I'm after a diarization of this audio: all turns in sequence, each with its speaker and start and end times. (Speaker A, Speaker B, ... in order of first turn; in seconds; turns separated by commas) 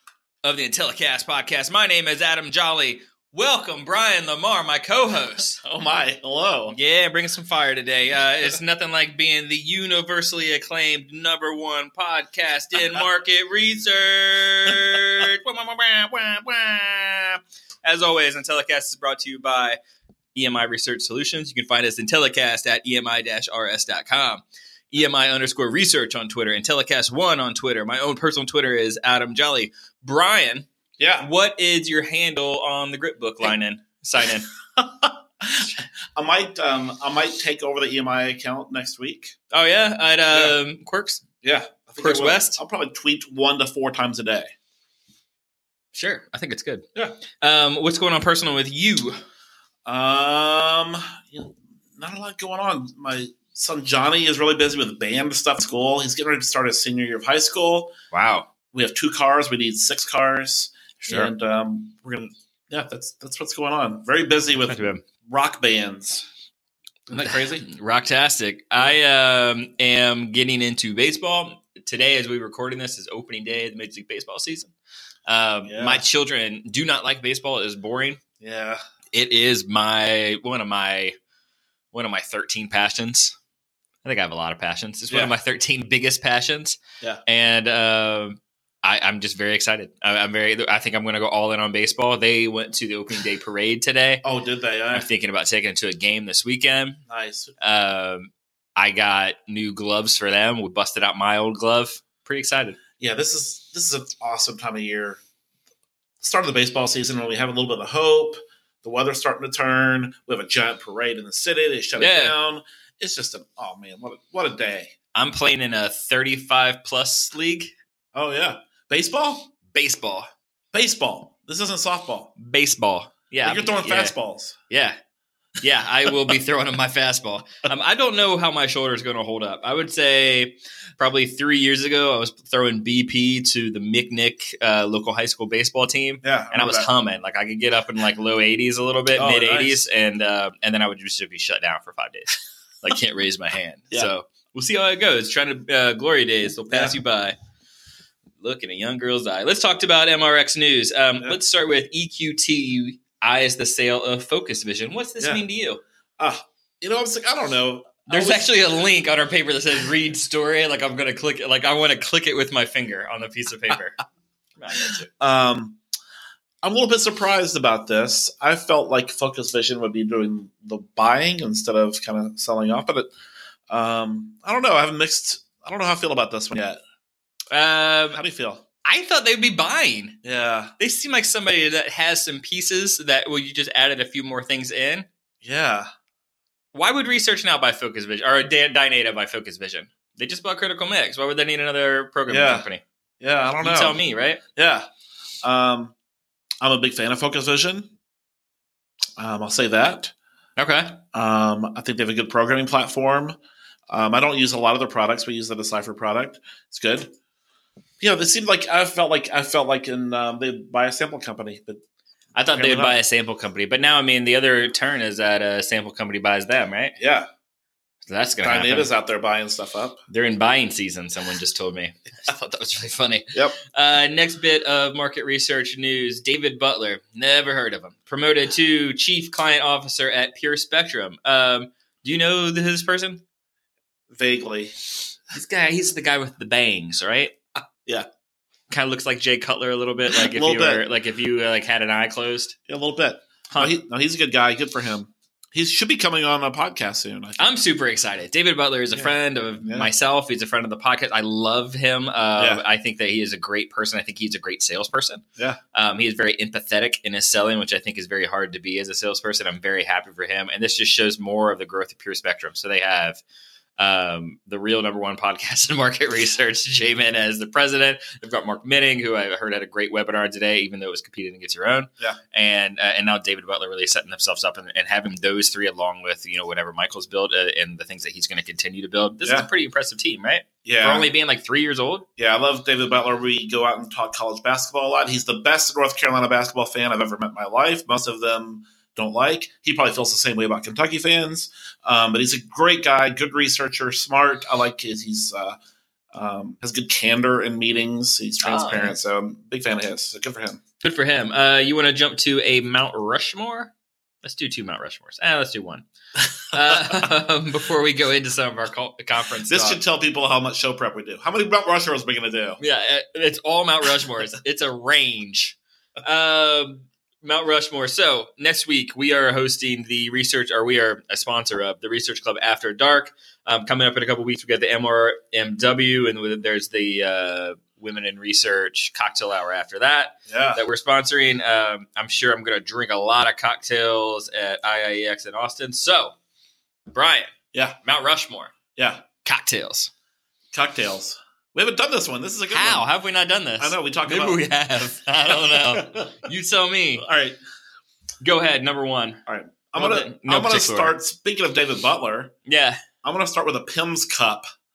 Speaker A: 0.4-5.6, Speaker B: 5.6-6.8, Speaker A: 6.7-19.8, Speaker A: 20.4-30.7, Speaker B: 31.0-31.3, Speaker A: 31.2-34.5, Speaker B: 34.8-39.4, Speaker A: 39.5-41.2, Speaker B: 40.3-40.6, Speaker B: 41.4-44.5, Speaker A: 42.0-42.6, Speaker A: 45.9-46.9, Speaker A: 47.4-49.2, Speaker B: 49.9-57.9, Speaker A: 58.1-58.5, Speaker B: 58.7-66.3, Speaker A: 64.7-65.0, Speaker B: 67.1-67.7, Speaker A: 67.1-74.7, Speaker A: 75.3-78.2, Speaker B: 75.7-76.0, Speaker B: 78.4-78.8, Speaker A: 79.1-81.2, Speaker A: 81.9-83.4, Speaker A: 84.0-94.2, Speaker B: 94.2-95.1, Speaker A: 94.9-97.0, Speaker B: 97.1-97.5, Speaker A: 97.6-102.8, Speaker B: 103.0-105.2, Speaker B: 106.2-114.9, Speaker A: 112.0-112.3, Speaker A: 115.2-117.7, Speaker B: 118.1-119.5, Speaker A: 119.7-120.3, Speaker B: 120.7-122.3, Speaker A: 122.4-124.2, Speaker B: 123.4-124.6, Speaker A: 124.7-125.0, Speaker A: 125.6-147.4, Speaker B: 136.2-136.9, Speaker B: 139.2-139.9, Speaker B: 146.7-147.0, Speaker A: 148.4-155.8, Speaker B: 156.2-158.6, Speaker A: 158.1-164.0, Speaker A: 164.6-165.1, Speaker B: 165.2-165.8, Speaker B: 166.6-173.1, Speaker B: 173.7-176.8, Speaker A: 177.5-178.2, Speaker B: 178.2-178.7, Speaker A: 178.8-180.2, Speaker B: 180.2-180.7, Speaker A: 180.8-185.1, Speaker B: 185.4-185.9, Speaker A: 186.7-192.8, Speaker B: 192.3-192.7, Speaker B: 193.2-194.0, Speaker A: 193.6-194.4, Speaker B: 194.6-194.9, Speaker B: 195.4-195.9, Speaker B: 196.6-197.9, Speaker B: 199.2-200.1, Speaker A: 200.6-201.0, Speaker B: 201.1-203.4, Speaker B: 203.9-207.1, Speaker B: 208.0-211.8, Speaker A: 212.3-217.0, Speaker B: 212.6-213.0, Speaker B: 217.0-217.3, Speaker A: 218.1-218.9, Speaker B: 218.4-220.0, Speaker A: 220.1-233.2, Speaker B: 234.1-234.7, Speaker A: 235.3-237.3, Speaker A: 238.7-242.6, Speaker B: 240.1-240.8, Speaker B: 242.7-247.5, Speaker A: 243.5-243.8, Speaker A: 247.4-263.2, Speaker B: 248.9-249.9, Speaker B: 252.4-252.6, Speaker A: 263.8-282.1, Speaker B: 279.2-279.5, Speaker B: 280.6-281.1, Speaker B: 282.2-295.6, Speaker B: 296.1-300.6, Speaker A: 298.4-299.0, Speaker A: 300.8-305.9, Speaker A: 306.5-309.8, Speaker B: 306.6-307.1, Speaker B: 309.5-312.6, Speaker A: 312.6-336.1, Speaker B: 330.3-330.6, Speaker A: 336.9-338.5, Speaker B: 338.8-339.0, Speaker A: 339.2-339.9, Speaker B: 340.5-342.9, Speaker A: 342.5-347.1, Speaker B: 343.6-344.4, Speaker B: 345.4-346.1, Speaker B: 347.0-347.4, Speaker A: 348.2-349.2, Speaker B: 349.3-352.3, Speaker A: 349.8-351.0, Speaker A: 352.5-352.8, Speaker B: 353.0-354.5